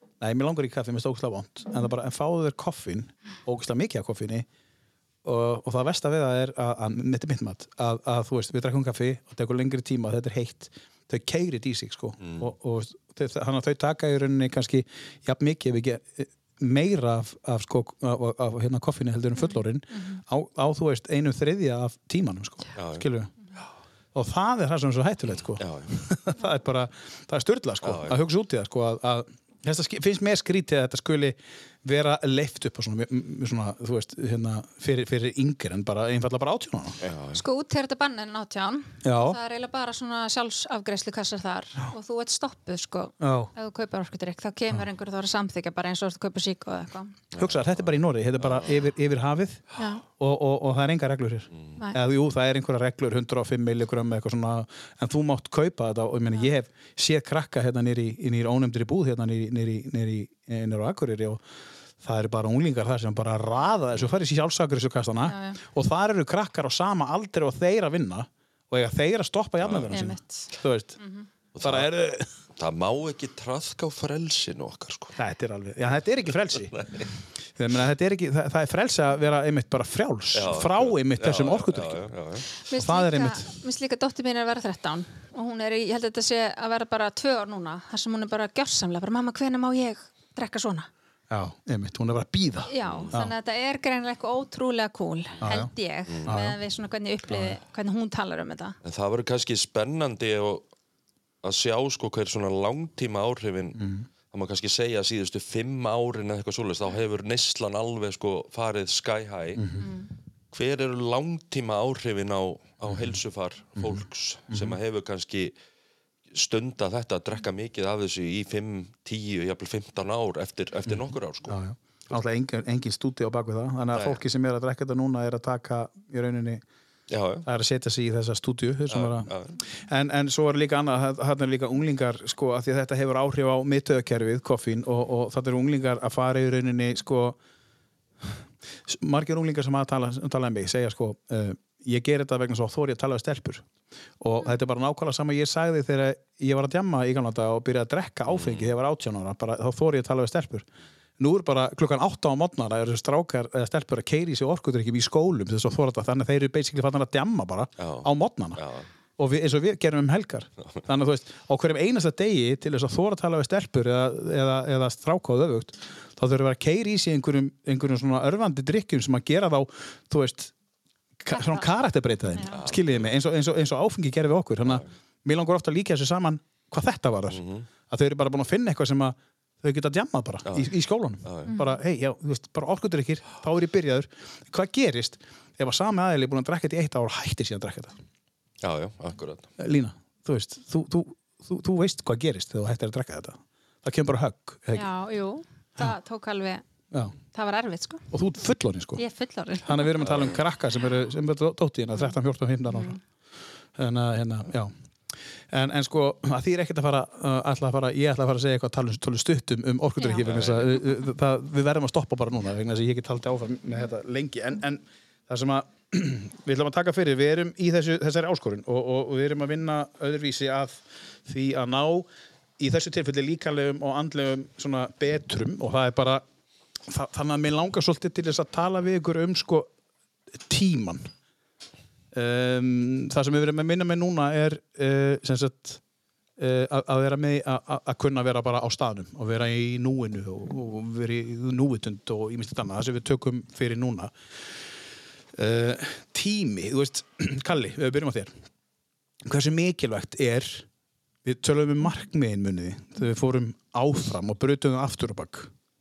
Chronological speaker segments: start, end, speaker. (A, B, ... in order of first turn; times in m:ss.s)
0:00.2-0:04.4 A
0:05.2-0:23.3 A
0:12.2-0:12.4 B
0:19.4-0:20.2 C
0:22.7-0:23.6 B
0:24.1-0:37.0 A
0:25.6-0:26.0 B
0:27.8-0:28.2 B
0:37.0-0:37.4 B
0:37.3-0:47.2 C
0:39.0-0:39.4 A
0:43.2-0:43.5 A
0:47.3-0:47.9 B
0:47.4-1:01.4 A
0:48.4-0:48.7 B
0:49.8-0:50.0 C
1:02.0-1:11.0 A
1:05.2-1:05.6 C
1:09.6-1:10.0 B
1:09.9-1:11.3 C
1:11.5-1:11.9 B
1:11.6-1:12.3 A
1:12.6-1:15.2 B
1:15.2-1:16.8 A
1:16.7-1:17.1 B
1:17.6-1:22.0 A
1:20.3-1:22.4 B
1:22.6-1:30.9 C
1:22.7-1:23.5 A
1:31.3-1:33.3 A
1:32.7-1:38.8 C
1:32.8-1:33.1 B
1:35.4-1:35.7 A
1:36.1-1:36.4 B
1:36.2-1:36.6 A
1:37.3-1:37.6 A
1:38.8-1:40.6 B
1:41.4-1:49.7 B
1:43.7-1:44.1 A
1:49.6-1:49.9 A
1:49.8-1:50.1 C
1:50.5-1:55.5 B
1:53.8-1:54.8 A
1:56.3-2:02.2 B
2:00.9-2:06.6 A
2:03.9-2:04.2 B
2:07.1-2:07.5 B
2:07.4-2:17.4 A
2:08.9-2:09.6 B
2:18.2-2:23.6 A
2:24.2-2:30.7 A
2:28.3-2:28.7 B
2:31.2-2:38.6 A
2:37.8-2:38.9 B
2:39.2-2:50.5 A
2:51.2-3:08.0 A
2:51.3-2:51.6 C
2:52.5-2:53.1 B
2:57.3-2:57.7 B
3:00.4-3:01.5 B
3:01.5-3:01.8 C
3:08.6-3:09.5 B
3:09.6-3:14.9 A
3:14.7-3:16.6 C
3:17.3-3:18.0 C
3:18.1-3:19.0 A
3:19.0-3:20.0 C
3:19.6-3:23.0 A
3:20.0-3:20.4 B
3:22.7-3:23.0 C
3:23.7-3:24.7 A
3:25.5-3:42.1 A
3:30.2-3:30.8 B
3:42.6-3:46.2 A
3:46.9-3:49.7 A
3:50.3-3:51.1 A
3:52.1-3:55.8 A
3:56.4-4:04.1 A
4:05.3-4:08.3 A
4:09.2-4:10.7 A
4:11.2-4:15.5 A